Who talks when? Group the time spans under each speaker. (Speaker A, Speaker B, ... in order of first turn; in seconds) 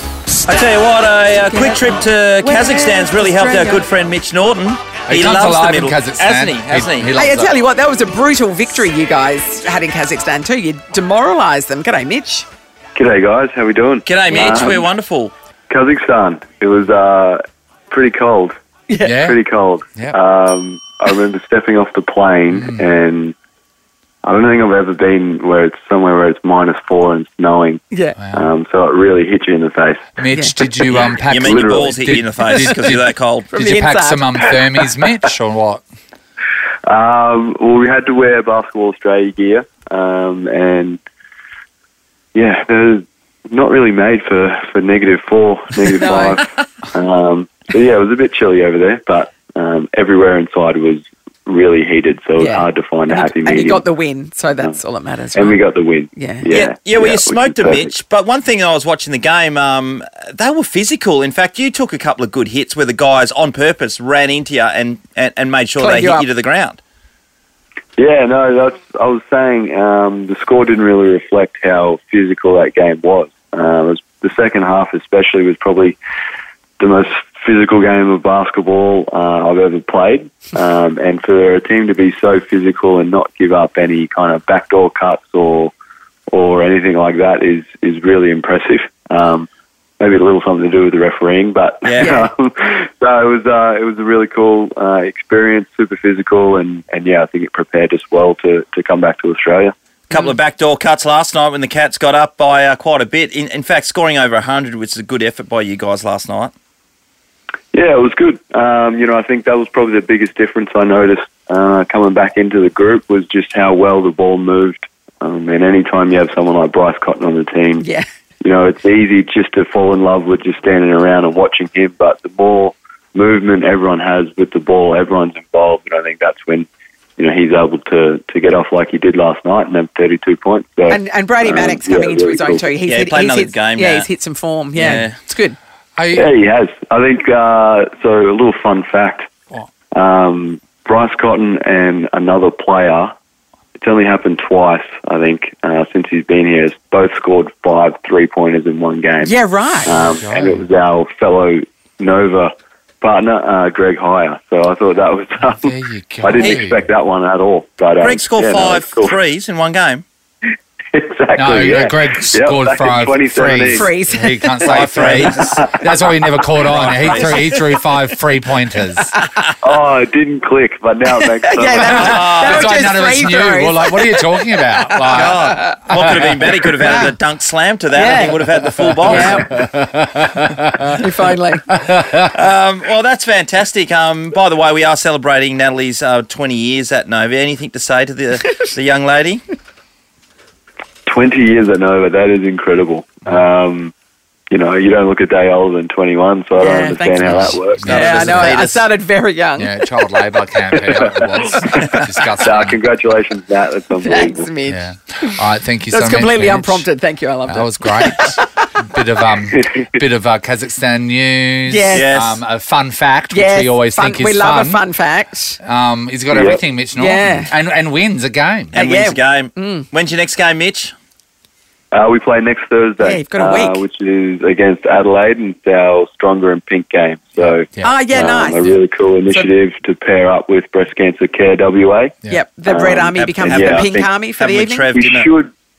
Speaker A: 0.5-7.1, 14.1-15.3, 30.9-33.6, 56.5-66.8, 91.8-92.2, 100.1-106.5, 132.8-134.1, 134.7-135.1, 158.0-160.0, 164.6-165.7, 166.6-167.6, 172.0-172.6, 175.1-179.3, 182.3-189.4, 197.8-198.8, 211.9-212.4, 218.7-220.9, 233.2-235.3
Speaker B: 1.5-3.8, 7.1-12.4, 14.3-14.8, 18.9-19.1, 27.9-28.1, 33.5-34.2, 45.9-46.4, 52.4-55.6, 56.1-56.5, 65.8-66.3, 92.0-92.2, 117.8-118.1, 130.9-135.6, 149.2-149.9, 163.7-164.8, 171.4-175.8, 176.8-177.1, 177.9-179.5, 180.9-181.6, 196.6-199.7, 204.0-208.4, 211.7-212.1, 213.3-215.6, 216.9-217.5, 218.7-219.9, 223.0-223.8, 227.8-228.6, 232.3-234.9
Speaker C: 5.0-7.5, 19.0-19.4, 22.5-22.9, 28.2-28.5, 30.2-33.0, 33.6-35.8, 136.0-136.3, 149.9-150.6, 155.6-156.8, 161.3-169.1, 171.8-176.9, 179.0-181.0, 181.7-182.3, 197.3-198.6, 199.6-202.8, 204.7-206.8, 207.5-214.8, 215.6-218.7, 227.4-228.0
Speaker D: 12.9-14.8, 15.7-18.5, 19.2-23.3, 24.2-27.8, 28.3-30.1, 31.4-32.0, 36.8-41.0, 42.3-53.8, 55.3-57.9, 68.0-76.0, 76.8-85.7, 86.3-89.5, 90.0-99.7, 107.7-117.8, 118.4-126.7, 127.2-132.6, 136.1-139.3, 139.9-143.1, 143.8-159.2, 160.9-163.9, 164.9-165.7, 169.6-172.5, 191.1-193.9, 194.5-198.2, 202.4-204.5, 216.3-216.6, 221.9-232.1, 232.7-234.1, 234.9-235.5